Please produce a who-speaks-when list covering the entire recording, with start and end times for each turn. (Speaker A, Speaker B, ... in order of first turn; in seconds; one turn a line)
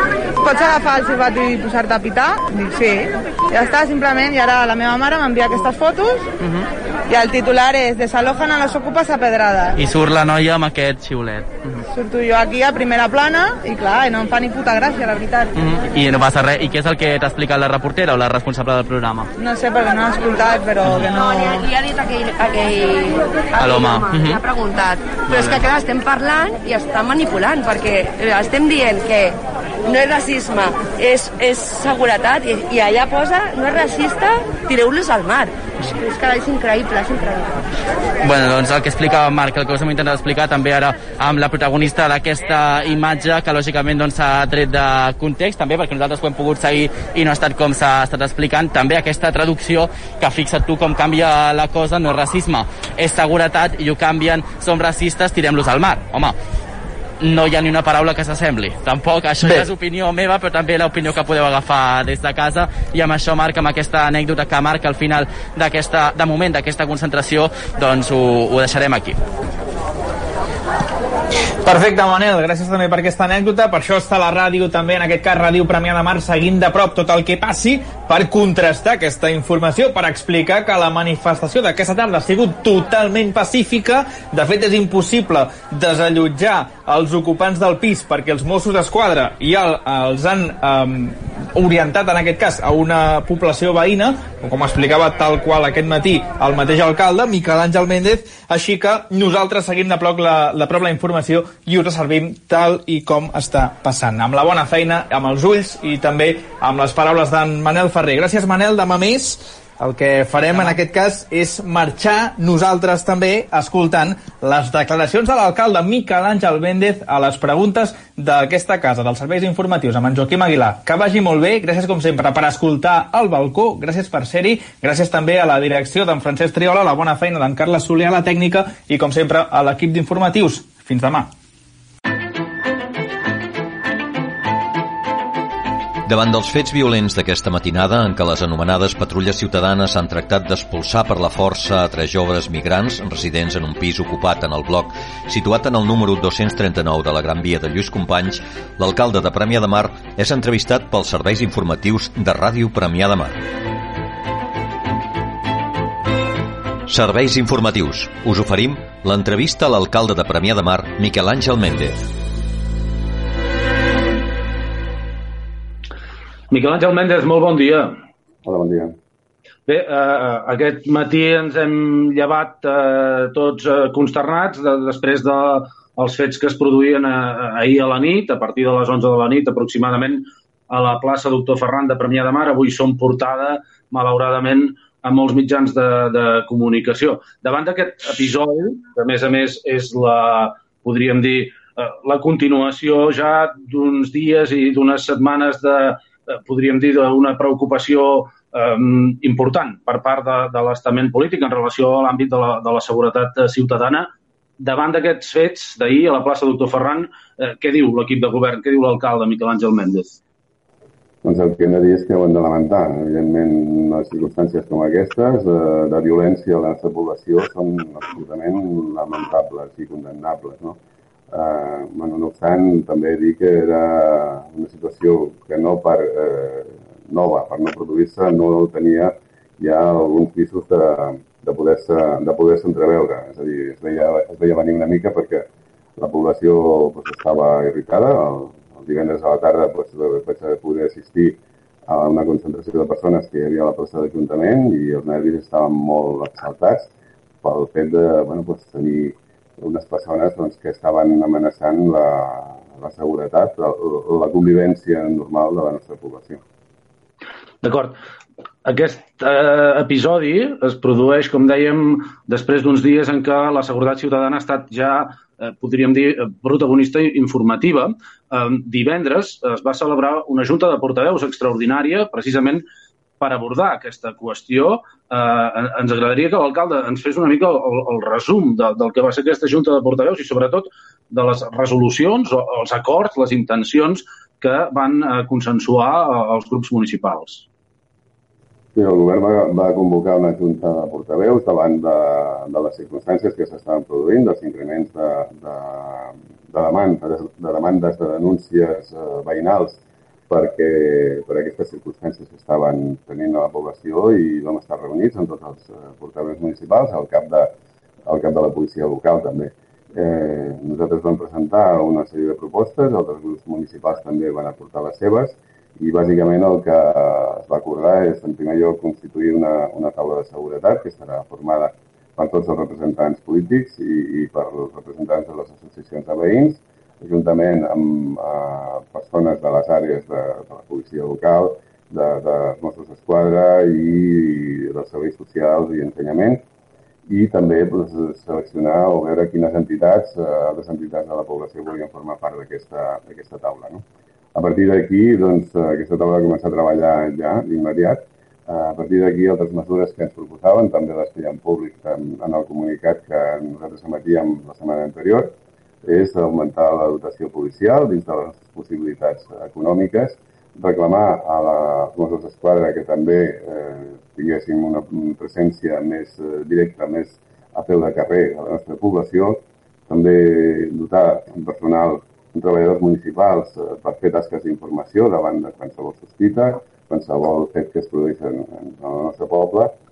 Speaker A: 0.4-6.3
Speaker A: 7.1-9.7
Speaker B: 9.8-11.8
Speaker A: 11.9-15.5
Speaker B: 15.6-19.3
Speaker A: 19.4-21.6
Speaker B: 20.8-21.1
Speaker C: 21.4-37.6
Speaker B: 23.6-24.4
Speaker B: 25.3-25.6
Speaker B: 38.2-56.3
Speaker B: 57.2-69.2
Speaker D: 71.6-131.3
Speaker B: 110.3-110.8
Speaker E: 136.1-153.4
Speaker E: 156.9-162.0
Speaker F: 166.5-168.0
Speaker G: 168.4-168.9
Speaker F: 169.7-204.1
Speaker F: 204.6-210.2
Speaker G: 211.2-220.8
Speaker G: 221.3-235.4
Speaker G: 236.0-246.9
Speaker G: 247.4-256.4
Speaker F: 257.6-258.0
Speaker F: 258.6-272.6
Speaker F: 273.2-287.4
Speaker G: 288.7-307.5
Speaker G: 308.1-336.4
Speaker G: 337.1-343.8
Speaker G: 344.3-379.7